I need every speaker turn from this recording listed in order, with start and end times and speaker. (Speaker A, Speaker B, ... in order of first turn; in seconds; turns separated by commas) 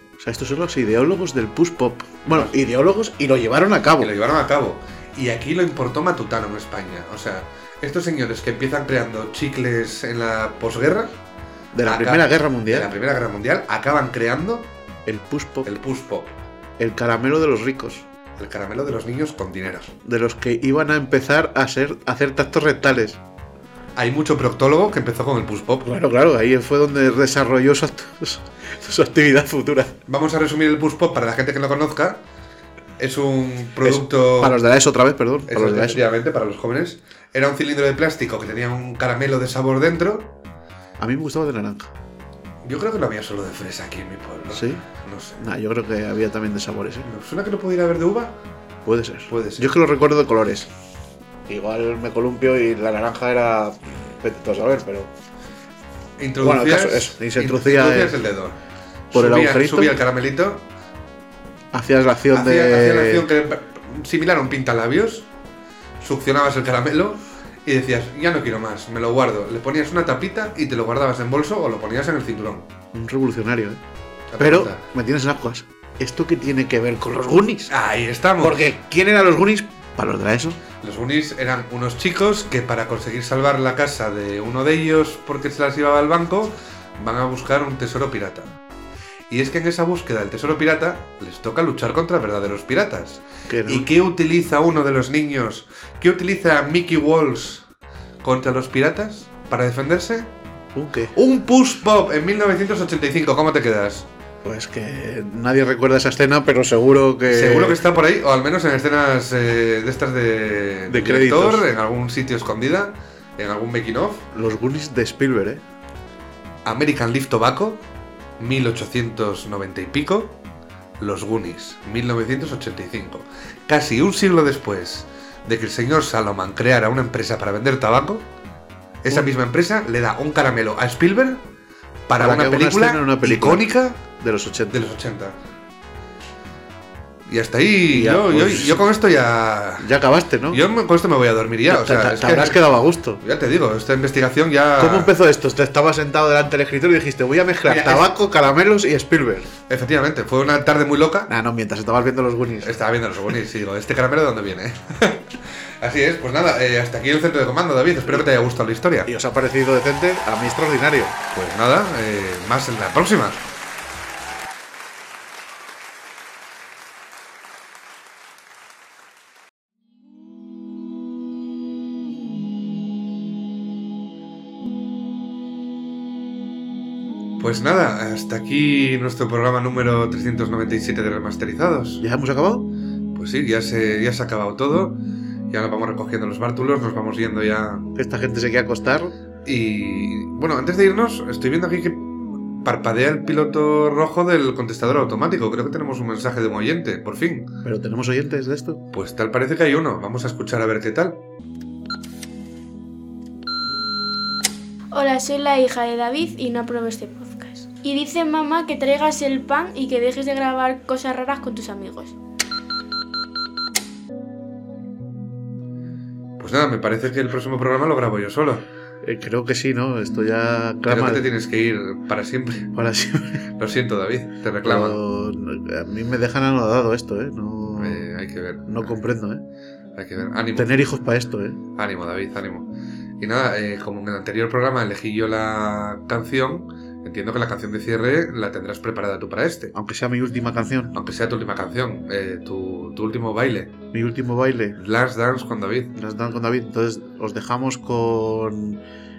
Speaker A: 0.2-4.1, Speaker B: 4.0-11.1, Speaker A: 11.7-12.9, Speaker B: 11.8-14.7, Speaker A: 15.1-15.7, Speaker B: 15.6-16.3, Speaker A: 16.8-18.0, Speaker B: 18.4-19.9, Speaker A: 20.0-23.2, Speaker B: 23.9-25.9, Speaker A: 25.8-29.9, Speaker B: 30.1-32.2, Speaker B: 33.0-34.6, Speaker A: 33.8-36.0, Speaker B: 35.5-40.3, Speaker A: 41.0-41.9, Speaker B: 42.6-45.4, Speaker A: 44.5-44.8, Speaker A: 45.4-47.1, Speaker B: 47.0-48.3, Speaker A: 48.8-50.7, Speaker B: 49.3-49.7, Speaker A: 51.5-55.1, Speaker B: 56.2-58.6, Speaker A: 56.4-58.2, Speaker B: 59.1-60.6, Speaker A: 59.1-60.0, Speaker A: 61.7-63.2, Speaker B: 62.3-65.3, Speaker B: 66.0-72.7, Speaker A: 72.9-73.8, Speaker B: 74.3-74.8, Speaker A: 74.4-77.7, Speaker B: 77.7-78.7, Speaker A: 78.4-80.6, Speaker B: 80.8-88.6, Speaker B: 89.3-97.6, Speaker A: 93.5-93.9, Speaker B: 98.2-100.3, Speaker A: 100.7-101.1, Speaker B: 101.1-104.1, Speaker A: 104.4-107.8, Speaker B: 107.3-114.2, Speaker A: 110.9-111.7, Speaker A: 114.3-115.6, Speaker B: 116.6-117.8, Speaker B: 118.4-120.4, Speaker B: 121.0-128.3, Speaker B: 129.0-131.4, Speaker B: 132.1-134.0, Speaker A: 132.2-134.9, Speaker B: 134.7-135.4, Speaker B: 137.2-139.9, Speaker A: 137.9-138.9, Speaker A: 139.8-140.6, Speaker B: 140.5-142.6, Speaker A: 141.7-143.2, Speaker B: 143.2-145.1, Speaker A: 144.8-149.5, Speaker B: 147.6-148.1, Speaker B: 149.7-151.3, Speaker A: 151.3-152.8, Speaker B: 152.6-159.1, Speaker A: 159.1-161.2, Speaker B: 161.3-163.4, Speaker B: 177.4-182.0, Speaker A: 182.0-182.7, Speaker B: 183.1-185.0, Speaker B: 185.5-187.9, Speaker A: 187.9-189.1, Speaker B: 189.4-197.5, Speaker A: 197.6-198.8, Speaker B: 198.9-201.2, Speaker C: 204.9-212.2, Speaker B: 216.4-218.6, Speaker A: 219.0-221.2, Speaker B: 220.9-222.7, Speaker A: 222.7-223.4, Speaker B: 223.6-225.0, Speaker A: 224.6-228.1, Speaker B: 227.8-228.9, Speaker A: 228.6-229.4, Speaker B: 229.9-230.8, Speaker A: 230.6-231.6, Speaker B: 231.8-232.7, Speaker B: 233.2-239.7, Speaker A: 239.7-240.9, Speaker B: 240.9-243.7, Speaker A: 243.9-244.8, Speaker B: 244.8-245.9, Speaker A: 245.9-248.8